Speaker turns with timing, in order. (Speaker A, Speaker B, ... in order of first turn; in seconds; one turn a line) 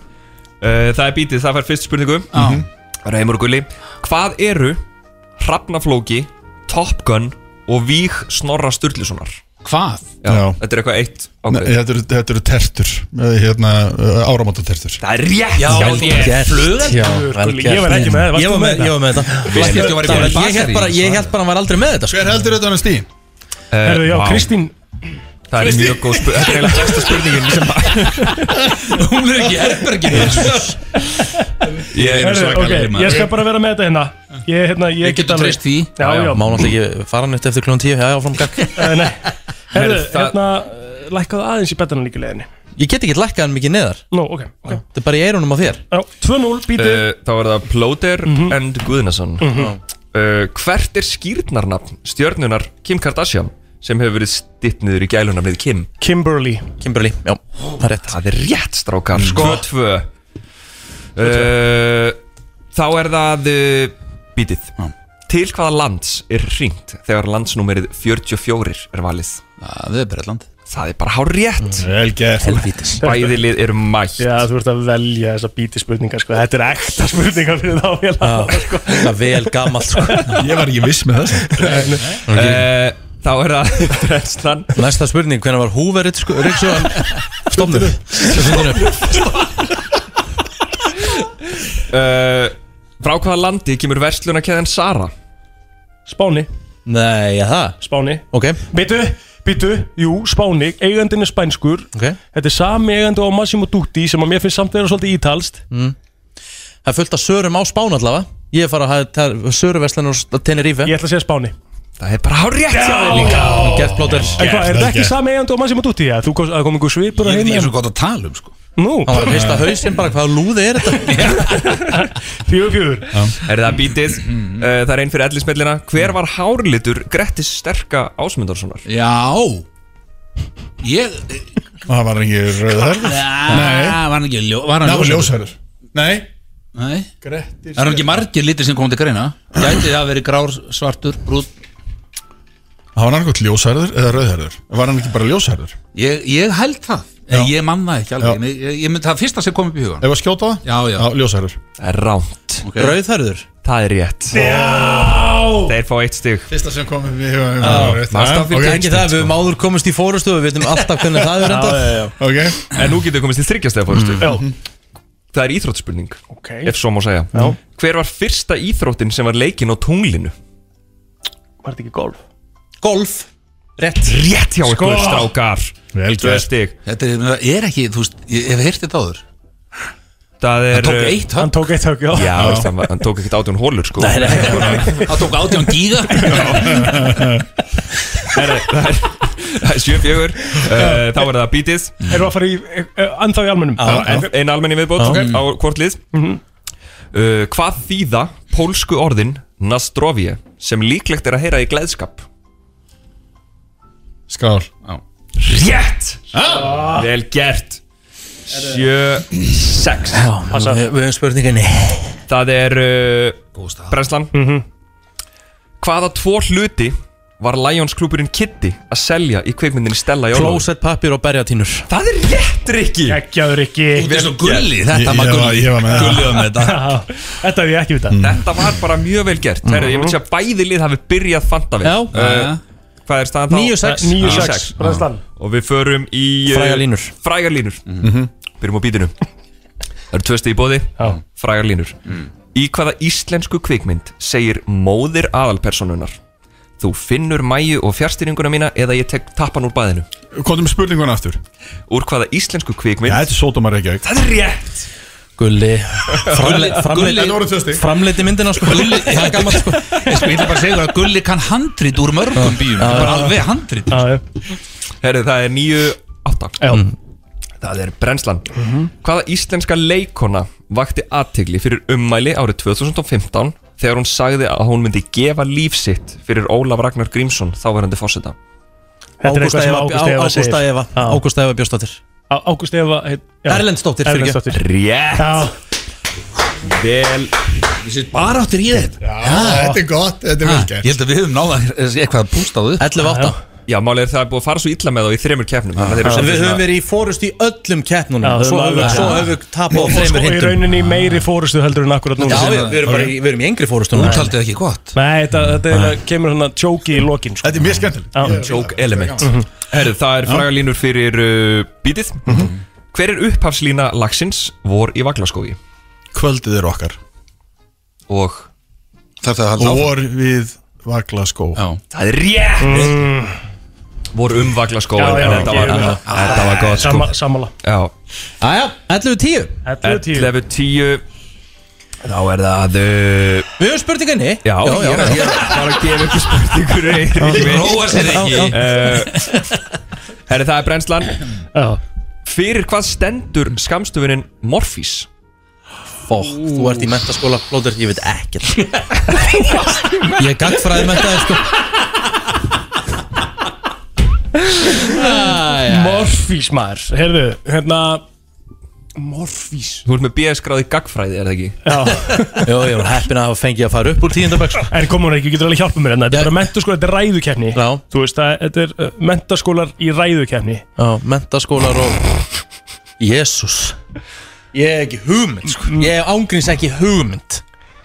Speaker A: 0.6-2.3
Speaker B: 2.3-2.6
Speaker C: 2.4-2.7
Speaker A: 3.0-4.8
Speaker A: 5.4-9.4
Speaker B: 9.6-10.2
Speaker A: 10.2-11.7
Speaker C: 10.3-10.6
Speaker C: 11.5-15.0
Speaker A: 15.0-16.7
Speaker B: 15.6-17.0
Speaker D: 15.6-22.4
Speaker E: 16.9-20.2
Speaker B: 19.5-21.3
Speaker A: 19.5-20.4
Speaker C: 22.1-23.1
Speaker A: 23.7-24.5
Speaker E: 23.8-24.7
Speaker A: 25.5-28.6
Speaker B: 25.6-25.9
Speaker B: 28.8-30.7
Speaker B: 31.9-33.3
Speaker A: 31.9-32.3
Speaker E: 32.2-36.5
Speaker C: 32.4-33.3
Speaker B: 35.0-36.2
Speaker A: 36.0-36.4
Speaker D: 36.3-38.8
Speaker E: 38.7-42.5
Speaker A: 39.7-40.4
Speaker D: 42.8-44.0
Speaker E: 44.1-44.8
Speaker D: 44.7-45.8
Speaker E: 45.9-47.0
Speaker A: 46.7-49.6
Speaker E: 48.3-48.6
Speaker E: 49.4-49.7
Speaker A: 50.1-55.9
Speaker E: 56.0-56.7
Speaker D: 56.8-58.2
Speaker A: 58.0-60.1
Speaker B: 59.1-59.6
Speaker A: 61.2-62.2
Speaker A: 62.7-64.7
Speaker A: 65.3-69.4
Speaker B: 69.6-70.5
Speaker A: 70.7-71.9
Speaker C: 71.8-72.7
Speaker D: 72.4-73.0
Speaker A: 73.0-74.4
Speaker E: 73.0-73.4
Speaker E: 74.2-80.4
Speaker D: 78.2-80.3
Speaker C: 80.3-82.0
Speaker E: 81.6-82.0
Speaker D: 82.3-82.7
Speaker A: 82.3-84.7
Speaker D: 84.8-89.0
Speaker A: 88.9-89.2
Speaker A: 91.9-95.1
Speaker E: 96.1-96.5
Speaker D: 96.9-97.8
Speaker E: 97.8-105.6
Speaker D: 98.3-98.6
Speaker D: 106.8-110.9
Speaker E: 110.8-111.5
Speaker A: 112.0-113.7
Speaker E: 112.7-117.7
Speaker D: 113.3-114.4
Speaker C: 113.8-115.2
Speaker B: 117.2-118.5
Speaker E: 118.8-119.4
Speaker D: 119.0-121.3
Speaker C: 119.1-119.9
Speaker B: 121.0-121.8
Speaker E: 121.5-123.1
Speaker A: 123.5-128.8
Speaker B: 124.2-124.7
Speaker B: 128.9-129.6
Speaker B: 130.8-131.5
Speaker C: 131.9-134.0
Speaker B: 133.0-135.4
Speaker C: 134.8-136.3
Speaker B: 136.7-137.1
Speaker C: 137.2-138.3
Speaker B: 137.8-141.5
Speaker C: 142.9-145.8
Speaker B: 145.9-150.1
Speaker C: 147.3-147.6
Speaker C: 150.0-151.6
Speaker B: 150.6-151.1
Speaker A: 151.8-152.7
Speaker B: 152.6-153.0
Speaker D: 152.8-153.4
Speaker A: 153.6-154.5
Speaker E: 154.3-155.7
Speaker C: 154.4-155.2
Speaker A: 155.6-156.5
Speaker C: 156.5-158.9
Speaker D: 157.6-162.0
Speaker A: 157.6-159.4
Speaker E: 161.4-162.1
Speaker C: 162.2-162.7
Speaker A: 162.7-164.3
Speaker A: 165.3-170.3
Speaker E: 166.4-166.7
Speaker E: 171.6-172.2
Speaker D: 172.8-174.2
Speaker A: 174.0-176.7
Speaker E: 174.8-175.2
Speaker C: 175.9-176.5
Speaker B: 176.8-179.2
Speaker A: 180.4-181.2
Speaker B: 180.7-181.6
Speaker E: 181.4-182.6
Speaker A: 182.1-184.7
Speaker C: 182.3-182.7
Speaker D: 184.0-184.9
Speaker E: 184.3-185.1
Speaker C: 184.5-184.8
Speaker B: 184.9-186.7
Speaker C: 186.3-187.4
Speaker A: 186.3-186.8
Speaker A: 188.3-192.1
Speaker E: 192.1-194.1
Speaker D: 193.8-194.2
Speaker C: 193.8-194.3
Speaker A: 193.9-196.0
Speaker D: 195.0-195.3
Speaker B: 195.1-195.4
Speaker E: 196.1-196.4
Speaker A: 197.1-202.3
Speaker C: 204.3-204.7
Speaker A: 205.4-206.2
Speaker C: 206.3-206.8
Speaker A: 206.8-207.8
Speaker A: 208.5-210.3
Speaker D: 210.1-212.2
Speaker E: 210.5-210.8
Speaker A: 212.3-214.3
Speaker B: 213.5-214.0
Speaker E: 214.3-214.6
Speaker A: 215.8-220.7
Speaker D: 220.3-221.9
Speaker A: 221.9-223.2
Speaker E: 223.1-224.1
Speaker B: 223.9-227.0
Speaker A: 224.0-224.7
Speaker C: 224.8-226.4
Speaker E: 226.5-228.2
Speaker C: 228.1-228.7
Speaker A: 228.2-232.5
Speaker D: 229.6-229.9
Speaker E: 229.8-230.2
Speaker D: 231.8-232.2
Speaker B: 232.1-232.6
Speaker A: 233.1-234.8
Speaker D: 233.5-234.6
Speaker E: 233.8-235.2
Speaker A: 235.4-237.8
Speaker D: 236.5-237.1
Speaker C: 238.0-238.3
Speaker A: 238.6-239.1
Speaker A: 240.1-241.9
Speaker A: 242.5-246.2
Speaker A: 246.8-250.1
Speaker C: 250.3-251.4
Speaker A: 251.9-253.3
Speaker C: 253.0-254.1
Speaker A: 254.0-254.8
Speaker D: 255.4-260.2
Speaker B: 256.3-257.4
Speaker C: 257.1-257.9
Speaker B: 258.7-264.1
Speaker D: 262.4-263.4
Speaker E: 262.9-263.3
Speaker E: 263.9-264.2
Speaker A: 265.0-266.7
Speaker A: 267.6-268.5
Speaker A: 269.0-278.4
Speaker E: 279.2-281.2
Speaker D: 279.2-282.0
Speaker E: 282.3-284.6
Speaker D: 283.5-284.4
Speaker A: 284.5-285.5
Speaker E: 285.2-285.5
Speaker A: 286.6-287.3
Speaker B: 287.8-289.7
Speaker C: 289.0-291.0
Speaker B: 290.4-292.9
Speaker D: 292.8-293.4
Speaker E: 293.0-293.4
Speaker A: 293.7-296.6
Speaker B: 295.8-296.2
Speaker E: 296.1-296.3
Speaker D: 296.1-300.7
Speaker E: 298.2-302.7
Speaker B: 298.9-299.1
Speaker B: 299.7-300.2
Speaker B: 302.2-303.1
Speaker D: 302.2-304.3
Speaker C: 302.9-303.1
Speaker B: 303.9-304.9
Speaker E: 304.0-304.2
Speaker E: 304.9-308.4
Speaker C: 307.4-309.3
Speaker A: 308.2-315.6
Speaker E: 309.2-309.5
Speaker C: 310.2-310.5
Speaker C: 312.3-312.5
Speaker C: 316.1-317.0
Speaker A: 318.1-318.5
Speaker B: 319.2-319.9
Speaker C: 319.6-321.6
Speaker B: 321.6-321.8
Speaker A: 321.9-322.9
Speaker E: 322.6-323.4
Speaker A: 324.1-327.1
Speaker E: 324.9-326.0
Speaker D: 325.3-326.2
Speaker B: 326.1-327.1
Speaker E: 326.8-327.5
Speaker A: 327.6-327.9
Speaker D: 328.4-329.6
Speaker E: 329.6-330.3
Speaker A: 329.8-331.0
Speaker A: 332.0-333.5
Speaker D: 333.6-335.4
Speaker A: 334.4-339.4
Speaker D: 337.2-338.6
Speaker B: 337.3-338.7
Speaker A: 340.3-341.2
Speaker E: 341.6-341.8
Speaker A: 342.3-345.1
Speaker D: 346.1-349.0
Speaker D: 350.2-351.4
Speaker E: 354.8-358.0
Speaker D: 354.8-356.1
Speaker E: 359.0-359.9
Speaker A: 359.9-361.6
Speaker E: 361.7-362.5
Speaker D: 362.4-364.7
Speaker E: 364.7-370.6
Speaker D: 367.5-367.8
Speaker D: 370.8-372.1
Speaker D: 373.0-373.8
Speaker D: 374.5-377.4
Speaker E: 375.6-375.9